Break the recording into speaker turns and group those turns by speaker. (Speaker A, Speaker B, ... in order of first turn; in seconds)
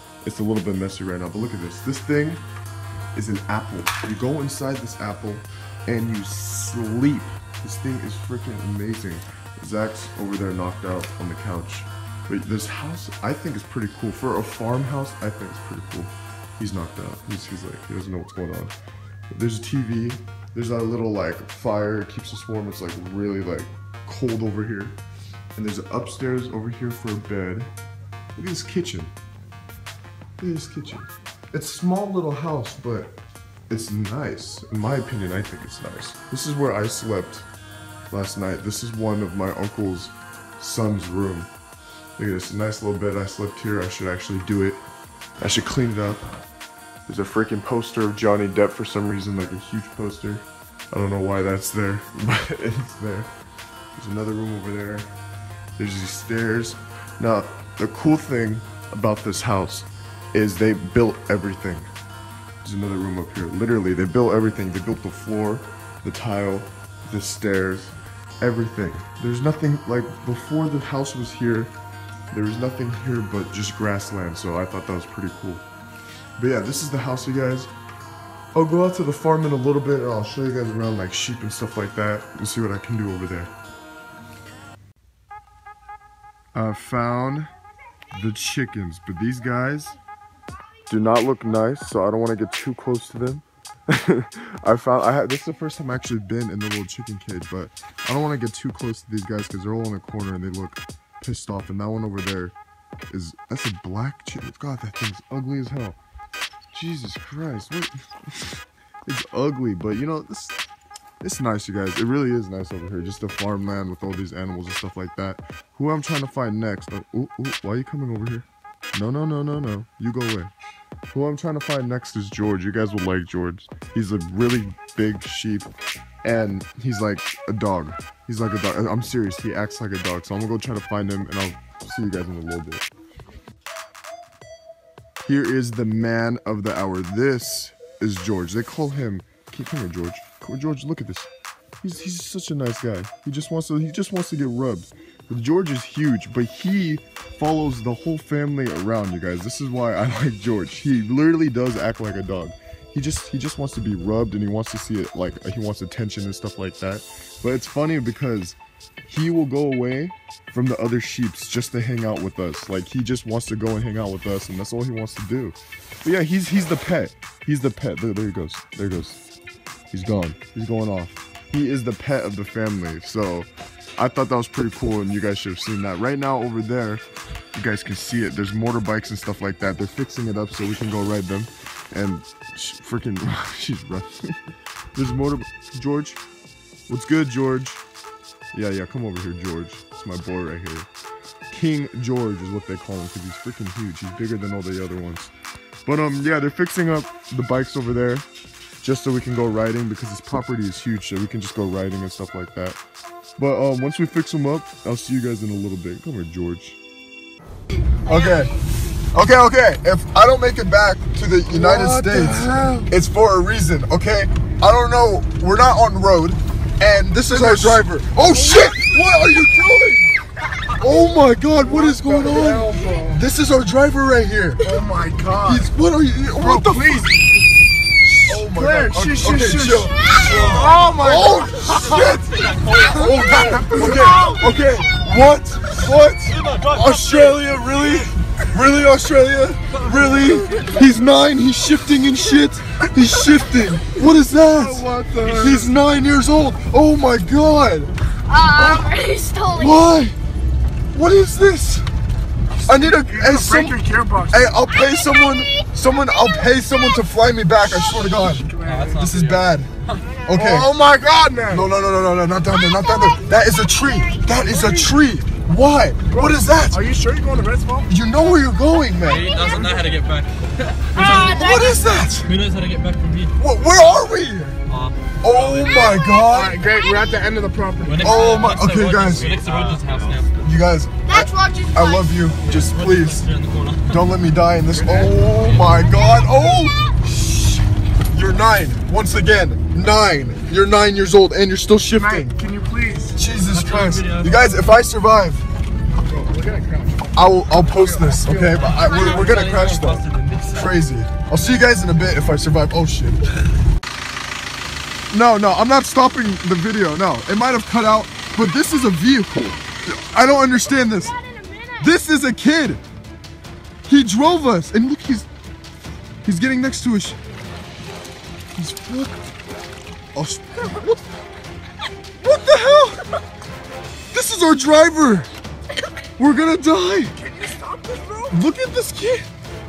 Speaker A: 0.2-2.4, 3.1-18.7, 19.3-25.0, 25.6-27.7, 28.3-29.1, 30.4-33.1, 33.7-37.5, 38.1-41.5, 42.2-44.8, 45.4-46.2, 47.1-53.3, 54.0-55.1, 55.8-61.9, 62.6-71.7, 72.3-75.6, 76.4-77.7, 78.5-83.5, 86.5-87.5, 88.1-90.0, 90.9-102.5, 103.1-106.0, 106.7-110.6, 111.2-120.5, 121.1-125.7, 126.2-132.9, 135.2-141.3, 141.8-169.2, 169.9-177.0, 177.5-184.4, 184.9-186.2, 186.9-187.8, 188.5-190.9, 191.5-195.3, 195.8-198.2, 198.8-202.8, 203.4-206.8, 208.1-208.6, 209.1-220.1, 220.7-224.6, 225.4-227.1, 228.2-247.9, 249.5-250.2, 250.9-251.9, 252.7-253.8, 254.3-258.5, 259.0-259.7, 260.2-260.7, 261.5-266.8, 267.9-269.3, 271.0-272.3, 273.4-274.6, 275.2-276.6, 278.0-279.3, 280.4-283.3, 283.9-292.4, 293.1-295.4, 297.1-303.2, 305.1-311.2, 311.8-312.8, 313.9-315.3, 316.2-317.2, 318.6-319.3, 320.1-321.0, 322.2-323.0, 324.1-325.3, 326.2-327.2, 328.3-329.3
Speaker B: 208.1-208.4, 248.3-249.9, 262.7-264.9, 271.1-271.9, 281.1-282.2, 285.9-286.4, 298.7-299.2, 311.0-311.9
Speaker C: 211.5-212.9, 217.3-217.8, 221.6-223.2, 224.6-225.7, 226.3-227.2, 228.2-234.4, 244.4-245.7, 252.7-254.6, 257.8-259.1, 260.3-261.7, 266.1-267.9, 269.4-269.9, 271.0-271.3, 276.3-278.2, 279.2-279.9, 284.7-285.3, 291.9-293.2, 296.1-298.8, 327.1-328.4
Speaker D: 230.2-230.9, 231.5-234.5, 236.1-238.0, 239.7-240.8, 258.6-260.1, 269.1-271.7, 272.2-273.4, 274.7-276.0, 277.8-280.5, 282.4-284.0, 285.4-285.8, 293.5-294.5, 298.6-300.7